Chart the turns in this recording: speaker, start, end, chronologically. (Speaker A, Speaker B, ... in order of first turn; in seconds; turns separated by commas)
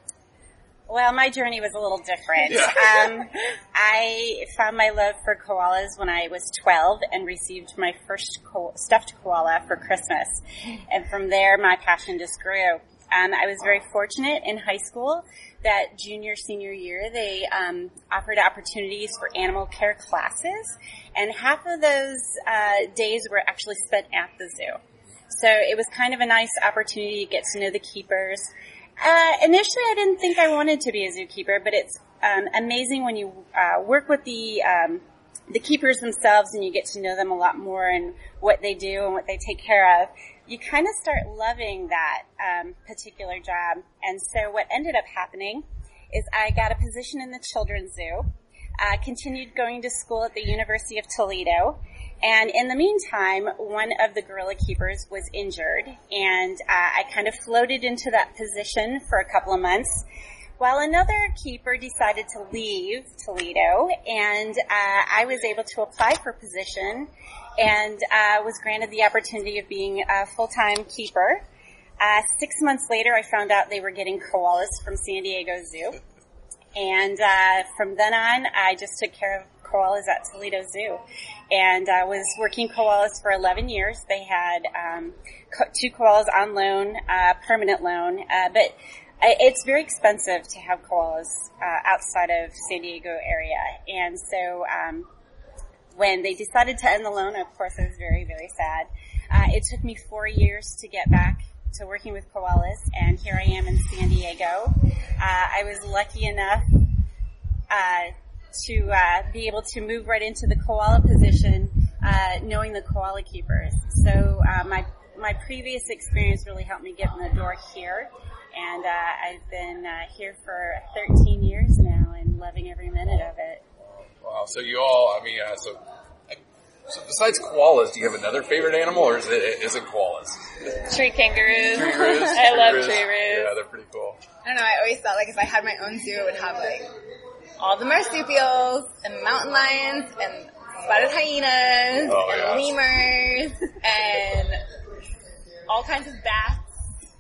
Speaker A: 0.9-60.1, Speaker B: 2.5-3.1, Speaker A: 60.6-71.4, Speaker A: 72.0-76.0, Speaker A: 76.8-95.1, Speaker A: 95.9-106.8, Speaker A: 107.7-123.6, Speaker B: 123.8-131.0, Speaker C: 130.8-133.5, Speaker B: 131.5-134.2, Speaker D: 134.4-136.9, Speaker D: 137.6-144.6, Speaker B: 142.0-142.7, Speaker D: 145.7-146.7